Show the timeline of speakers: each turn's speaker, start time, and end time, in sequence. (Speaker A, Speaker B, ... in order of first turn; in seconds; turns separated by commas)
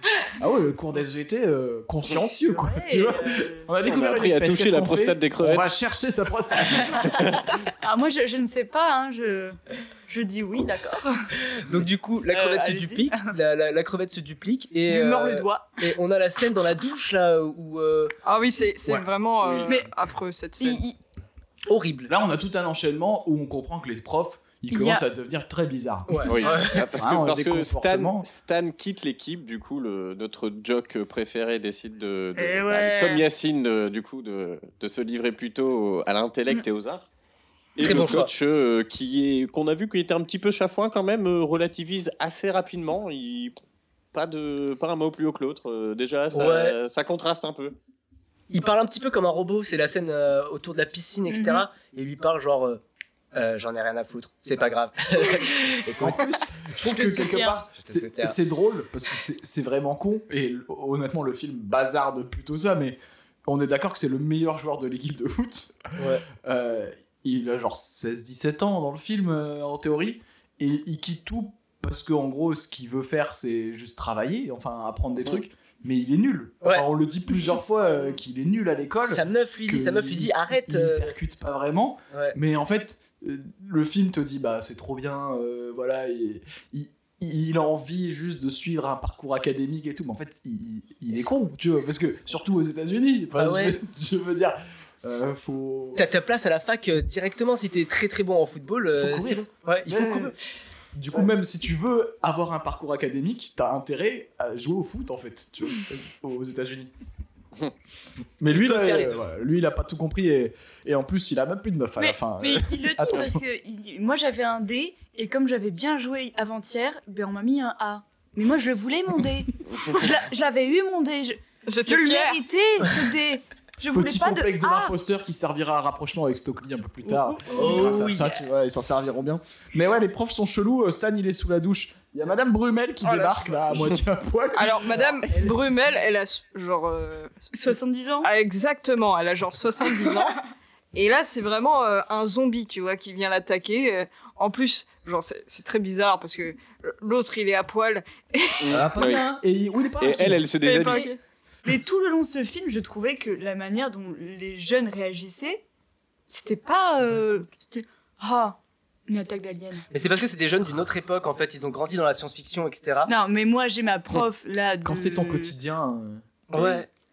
Speaker A: 0.4-7.5, Speaker B: 2.5-3.7, Speaker C: 3.9-5.8, Speaker B: 7.7-11.3, Speaker D: 11.4-18.2, Speaker B: 12.3-13.3, Speaker B: 14.9-15.8, Speaker E: 18.2-20.8, Speaker B: 19.6-19.9, Speaker B: 20.6-21.0, Speaker D: 21.7-22.1, Speaker A: 22.1-28.3, Speaker B: 24.7-25.0, Speaker D: 26.1-26.9, Speaker C: 26.3-37.1, Speaker B: 26.4-26.7, Speaker B: 32.4-33.2, Speaker C: 37.8-43.5, Speaker D: 37.8-38.3, Speaker C: 44.1-47.8, Speaker D: 46.3-46.8, Speaker D: 48.5-52.8, Speaker B: 51.3-51.7, Speaker D: 53.3-56.2, Speaker A: 56.0-96.0, Speaker B: 56.8-57.6, Speaker D: 57.8-58.4, Speaker D: 66.0-66.2, Speaker D: 79.1-81.2, Speaker D: 82.1-82.4, Speaker D: 93.4-93.8, Speaker D: 96.0-100.4, Speaker A: 99.0-100.3, Speaker A: 100.9-106.9, Speaker A: 108.4-113.4, Speaker D: 108.5-109.2, Speaker B: 112.0-125.0, Speaker E: 121.7-122.4, Speaker A: 123.9-135.6, Speaker B: 127.0-128.3, Speaker D: 127.5-128.3, Speaker E: 133.1-133.8, Speaker E: 134.6-137.3, Speaker B: 137.5-138.3, Speaker E: 138.2-140.4, Speaker E: 140.9-148.9, Speaker C: 148.6-149.3, Speaker A: 148.7-151.1, Speaker C: 150.0-151.1, Speaker E: 150.6-151.2, Speaker B: 151.7-155.6, Speaker B: 156.3-159.8, Speaker D: 159.9-163.1, Speaker B: 163.1-165.5, Speaker A: 164.8-166.2, Speaker D: 166.5-166.9